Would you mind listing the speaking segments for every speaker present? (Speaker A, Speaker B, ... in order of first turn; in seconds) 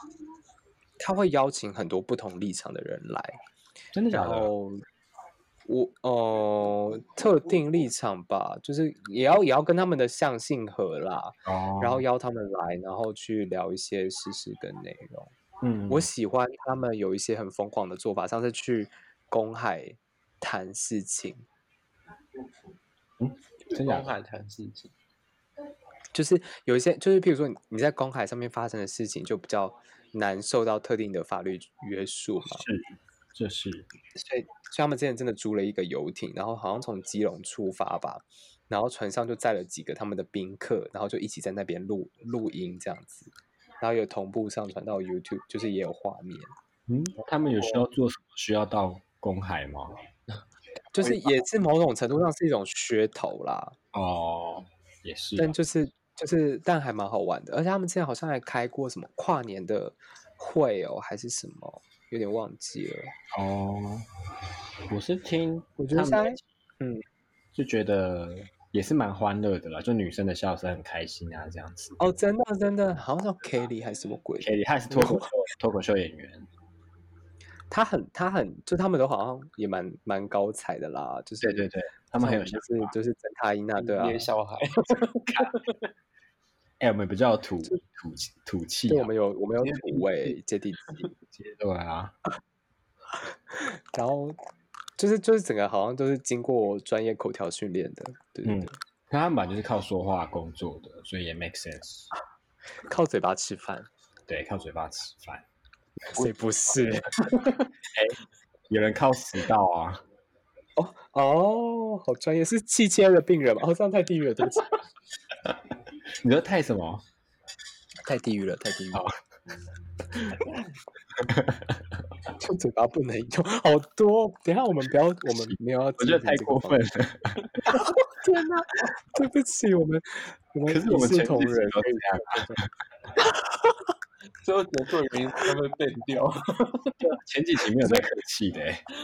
Speaker A: 1.0-3.4, 4.1-4.8, 5.7-15.3, 15.9-21.4, 26.1-32.6, 34.1-46.5, 50.9-53.7, 55.4-63.1, 65.8-67.0, 72.0-75.3, 77.7-84.3, 88.9-91.1, 93.5-94.4, 95.0-98.7, 102.9-103.9, 106.1-107.5, 110.8-114.7, 118.0-119.0, 122.4-126.8, 127.7-132.6
Speaker B: 3.9-4.5, 11.4-12.0, 15.6-16.1, 23.2-24.1, 32.5-33.9, 46.9-50.0, 53.9-55.6, 63.3-64.0, 64.9-66.4, 67.5-72.2, 74.4-76.5, 81.4-82.9, 86.8-89.1, 91.3-92.1, 98.4-102.1, 104.3-105.4, 108.7-110.0, 116.2-117.0, 120.1-120.4, 121.1-122.0, 125.3-127.6, 130.7-132.7, 137.0-138.8
Speaker C: 23.7-24.9, 51.0-51.3, 83.8-85.8, 89.6-90.3, 107.2-107.7, 134.4-137.0